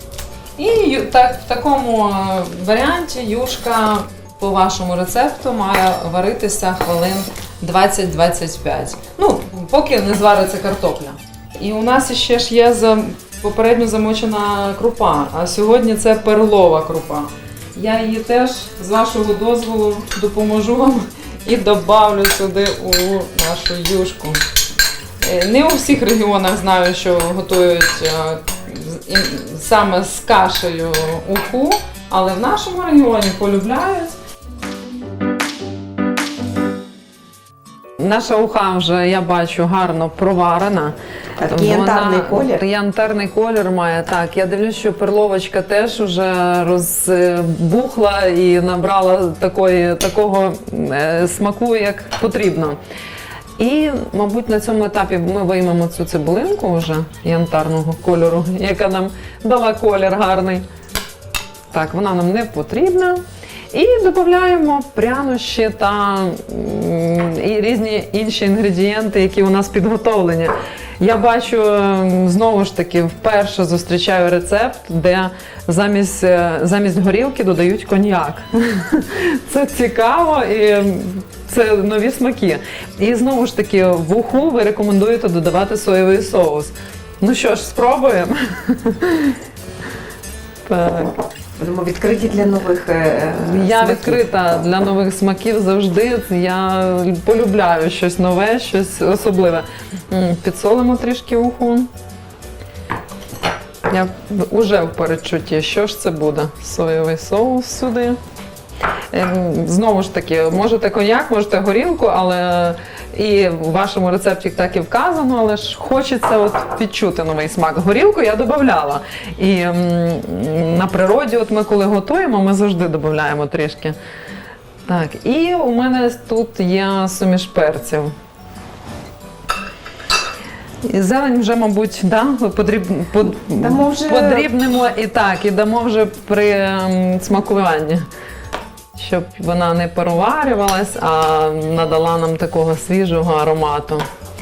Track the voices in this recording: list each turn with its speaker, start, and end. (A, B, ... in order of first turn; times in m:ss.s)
0:00.6-0:24.4 A
0:25.2-0:34.2 A
0:38.0-0:52.8 A
0:41.4-0:42.6 B
0:53.6-1:00.6 A
1:01.7-1:29.4 A
1:30.7-1:31.2 A
1:31.6-1:34.2 B
1:33.4-1:41.9 A
1:43.9-1:48.2 A
1:49.1-2:04.0 A
2:04.9-2:08.1 A
2:10.8-2:18.0 A
2:13.4-2:14.5 B
2:19.0-2:24.0 A